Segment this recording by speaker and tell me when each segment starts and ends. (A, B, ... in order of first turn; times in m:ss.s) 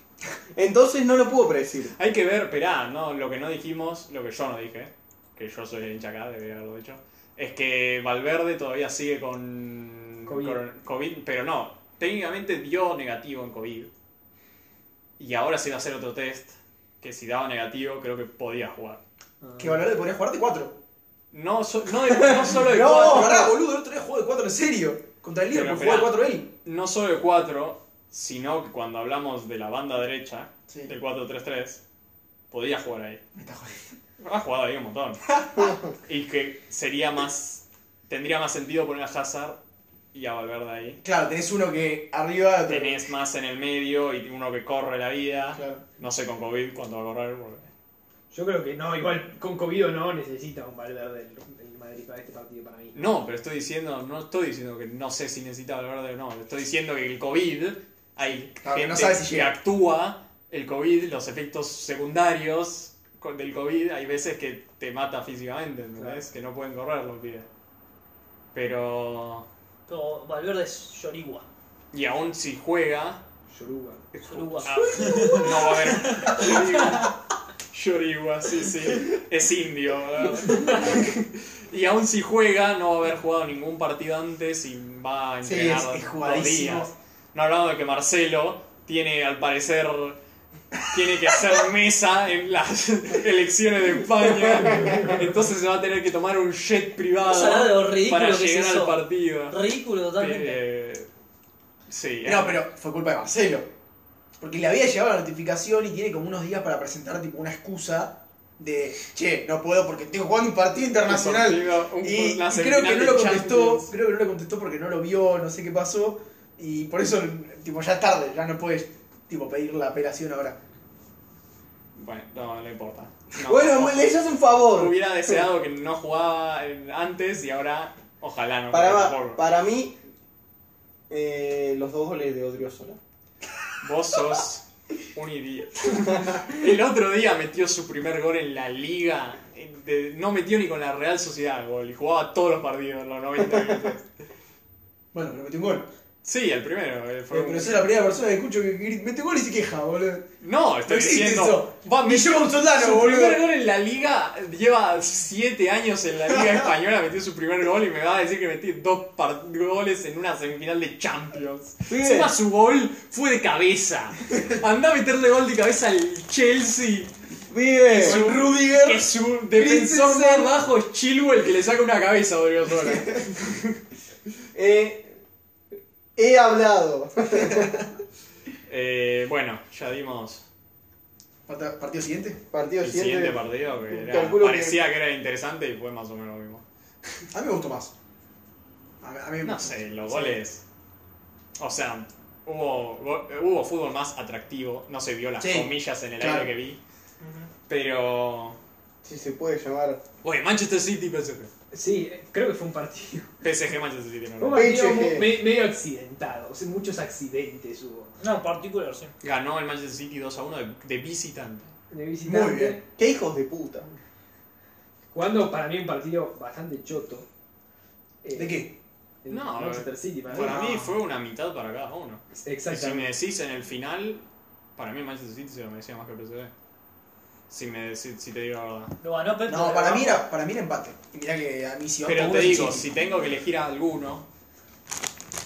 0:00.5-0:01.9 A
0:02.0-0:13.9 B
0:10.2-0:10.6 C
0:15.2-0:19.0 B
0:19.4-0:19.8 C
0:19.6-0:20.8 D
0:21.3-0:23.4 B
0:22.2-0:23.5 A
0:22.8-0:26.5 D
0:25.5-0:31.8 B
0:32.5-0:33.2 B
0:33.3-0:33.9 D
0:34.2-0:35.4 B
0:36.0-0:39.6 B
0:40.1-0:41.0 B
0:41.0-0:43.0 D
0:42.6-0:47.7 B
0:45.5-0:45.8 D
0:48.3-0:53.0 C
0:52.9-1:07.5 B
0:58.6-0:59.5 D
1:06.0-1:06.2 C
1:08.5-1:09.5 B
1:09.9-1:11.4 E
1:11.9-1:13.2 B
1:13.5-1:14.7 C
1:14.2-1:17.1 E
1:14.6-1:17.2 B
1:17.7-1:30.2 B
1:25.4-1:26.9 D
1:30.8-1:39.6 B
1:37.2-1:40.6 E
1:40.2-1:41.1 B
1:41.9-1:42.6 B
1:42.2-1:43.7 D
1:44.4-2:00.6 D
1:51.0-1:53.9 B
2:01.9-2:04.2 B
2:03.4-2:05.4 A
2:04.7-2:09.4 B
2:08.7-2:10.0 A
2:11.1-2:13.0 A
2:13.8-2:24.0 B
2:25.1-2:25.9 D
2:26.2-2:27.9 B
2:27.3-2:30.3 D
2:30.4-2:47.1 B
2:30.8-2:33.4 D
2:41.9-2:42.3 A
2:47.5-2:48.2 A
2:47.9-2:53.8 B
2:47.9-2:50.6 D
2:52.8-2:53.2 D
2:54.5-2:55.1 A
2:56.2-2:57.7 A
2:57.3-2:57.7 D
2:58.7-3:00.4 B
3:01.5-3:02.4 D
3:02.5-3:04.8 A
3:02.8-3:06.6 B
3:07.3-3:07.9 D
3:09.0-3:10.4 D
3:09.4-3:10.6 B
3:11.6-3:16.8 B
3:15.4-3:16.5 D
3:17.2-3:17.5 E
3:17.7-3:18.6 B
3:19.0-3:20.0 A
3:20.2-3:21.5 B
3:21.7-3:23.3 C
3:23.4-3:24.7 B
3:24.4-3:28.1 C
3:24.5-3:25.3 A
3:28.2-3:29.1 E
3:29.2-3:31.7 B
3:31.9-3:32.8 C
3:32.3-3:33.9 A
3:35.1-3:37.3 C
3:38.2-3:38.6 C
3:38.3-3:38.8 D
3:39.2-3:40.7 C
3:39.3-3:46.5 B
3:40.3-3:40.8 D
3:42.4-3:43.1 C
3:47.5-3:49.0 B
3:49.0-3:50.2 E
3:49.5-3:52.9 D
3:52.0-3:54.2 B